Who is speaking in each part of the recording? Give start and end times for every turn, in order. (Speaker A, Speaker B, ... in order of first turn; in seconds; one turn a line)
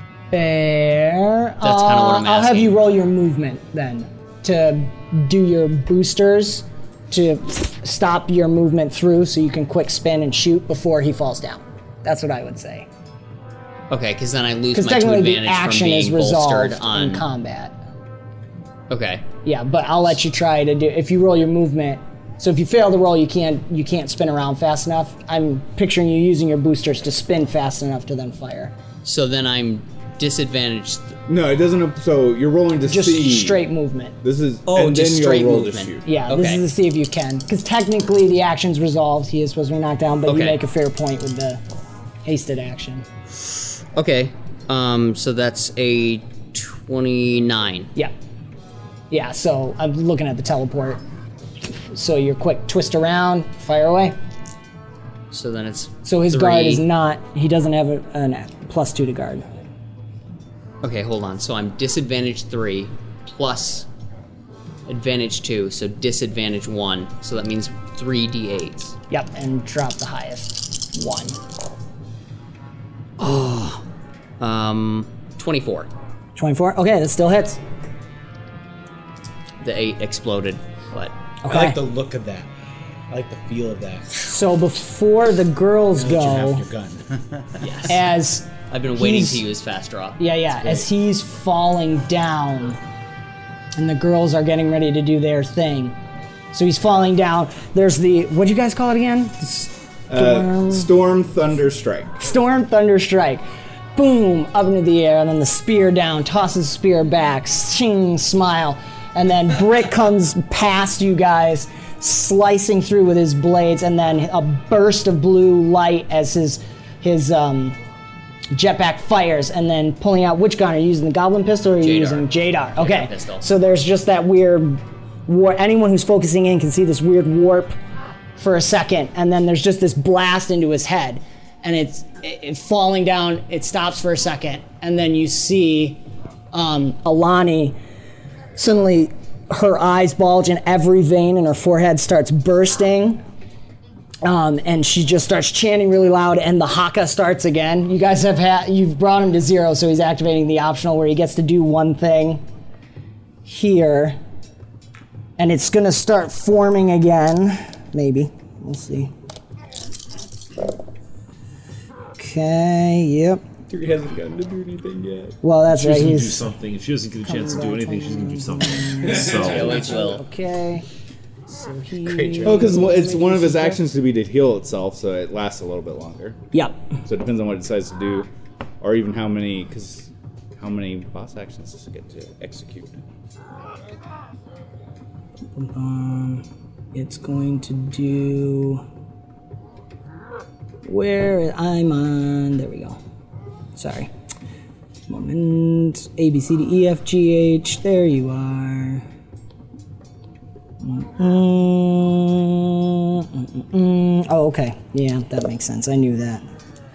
Speaker A: 0.3-12.9
Speaker B: 1.6-2.9
Speaker B: 13.9-17.2
Speaker A: 14.7-17.7
Speaker B: 18.9-19.2
Speaker A: 19.4-28.7
Speaker B: 29.0-31.2
Speaker C: 31.3-33.6
Speaker A: 32.9-34.1
Speaker C: 34.2-36.2
Speaker B: 34.6-36.6
Speaker A: 36.0-41.6
Speaker B: 40.2-40.6
Speaker A: 42.2-43.0
Speaker B: 43.9-47.9
Speaker A: 49.1-51.0
Speaker A: 51.9-54.1
Speaker B: 55.3-56.9
Speaker A: 56.0-59.5
Speaker B: 60.8-63.9
Speaker B: 64.9-68.9
Speaker A: 69.1-71.4
Speaker B: 73.2-73.8
Speaker B: 74.4-75.9
Speaker A: 76.4-77.6
Speaker B: 79.6-81.1
Speaker A: 81.4-81.8
Speaker D: 81.5-82.5
Speaker D: 83.1-84.1
Speaker A: 84.2-86.6
Speaker D: 85.9-88.0
Speaker A: 87.8-89.4
Speaker B: 88.7-90.2
Speaker A: 90.2-92.8
Speaker A: 93.8-96.0
Speaker A: 96.5-100.9
Speaker C: 100.1-102.2
Speaker A: 102.2-103.4
Speaker A: 103.9-117.8
Speaker A: 118.5-127.8
Speaker B: 121.8-123.5
Speaker A: 128.4-136.0
Speaker A: 136.5-137.7
Speaker A: 138.6-143.2
Speaker A: 144.2-152.4
Speaker A: 153.4-154.2
Speaker A: 155.4-159.1
Speaker A: 162.2-163.4
Speaker C: 163.7-165.4
Speaker A: 165.4-166.4
Speaker E: 165.7-169.9
Speaker A: 167.2-170.8
Speaker C: 169.1-169.4
Speaker B: 169.3-170.2
Speaker A: 171.5-173.8
Speaker D: 172.1-172.7
Speaker C: 172.4-176.4
Speaker C: 177.1-178.3
Speaker C: 178.8-183.0
Speaker A: 185.5-188.8
Speaker A: 190.8-193.0
Speaker A: 193.8-194.1
Speaker A: 195.1-199.1
Speaker A: 200.8-206.4